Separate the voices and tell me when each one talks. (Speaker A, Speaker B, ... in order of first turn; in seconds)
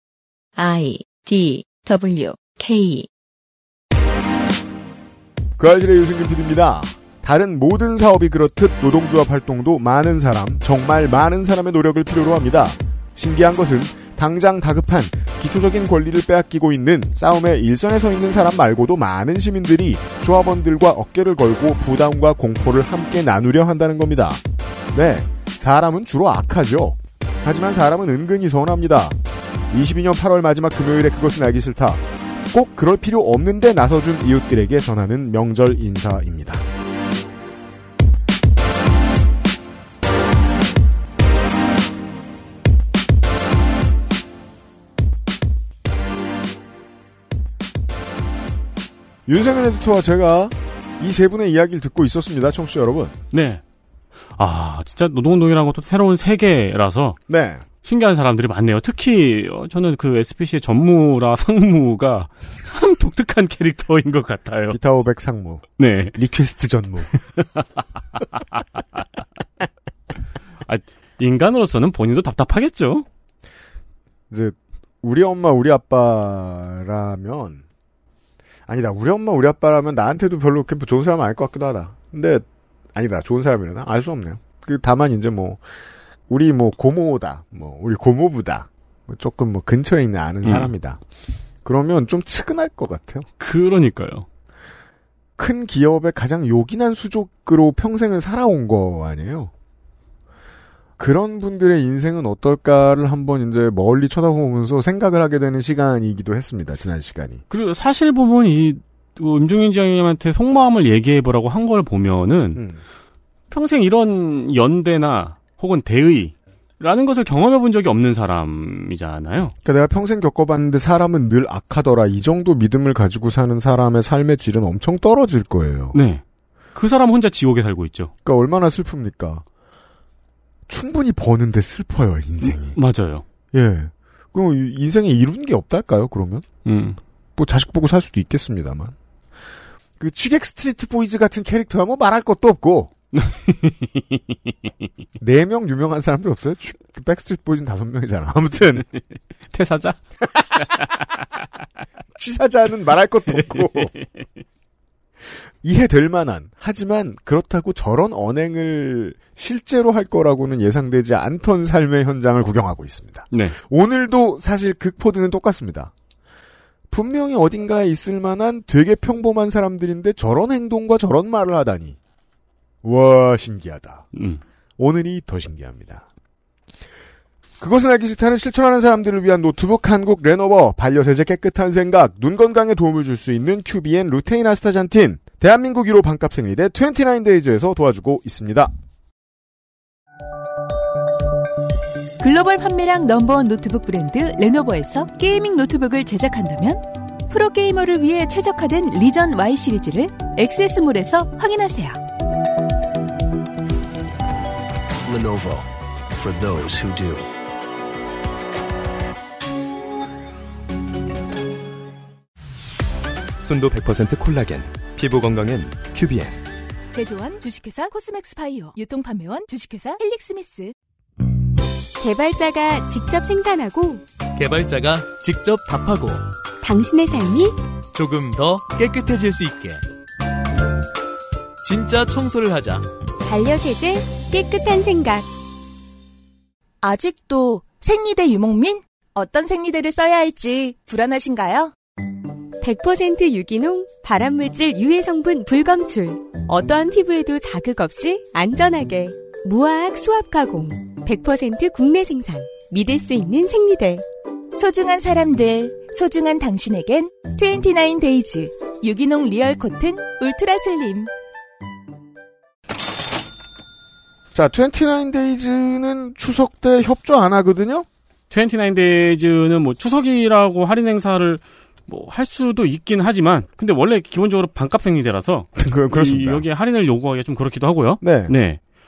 Speaker A: 0.6-3.1
Speaker B: 5.6-29.2, 29.7-36.6, 49.3-53.2, 57.3-57.6, 64.7-67.1, 74.3-77.6, 78.7-85.6, 86.3-91.0, 91.7-93.3, 95.4-99.5, 101.0-107.4, 112.5-112.8, 119.6-126.0, 128.2-129.4, 130.7-132.8, 133.5-136.5, 137.4-138.9, 140.0-142.9, 145.2-148.9, 150.2-150.6, 152.2-153.9, 155.6-165.9, 166.9-172.0, 172.8-174.1, 174.8-176.1, 177.6-188.7, 264.3-267.9, 275.6-276.4, 278.0-278.3
Speaker C: 53.3-53.6, 54.4-57.2, 57.8-64.8, 65.8-66.2, 67.4-67.6, 70.7-73.0, 90.5-90.7, 93.4-94.3, 107.5-112.6, 113.5-119.5, 125.9-126.2, 126.8-128.1, 132.7-133.2, 136.7-137.0, 149.5-150.0, 153.5-154.0, 174.1-174.4, 268.3-278.6
Speaker D: 192.2-202.0, 216.9-220.7, 254.5-261.1
Speaker E: 205.1-207.3
Speaker F: 213.4-216.4
Speaker G: 222.0-224.0, 226.6-227.6, 233.2-235.3, 242.6-254.1
Speaker H: 224.3-226.3, 227.9-229.8, 231.6-232.9
Speaker I: 236.8-241.7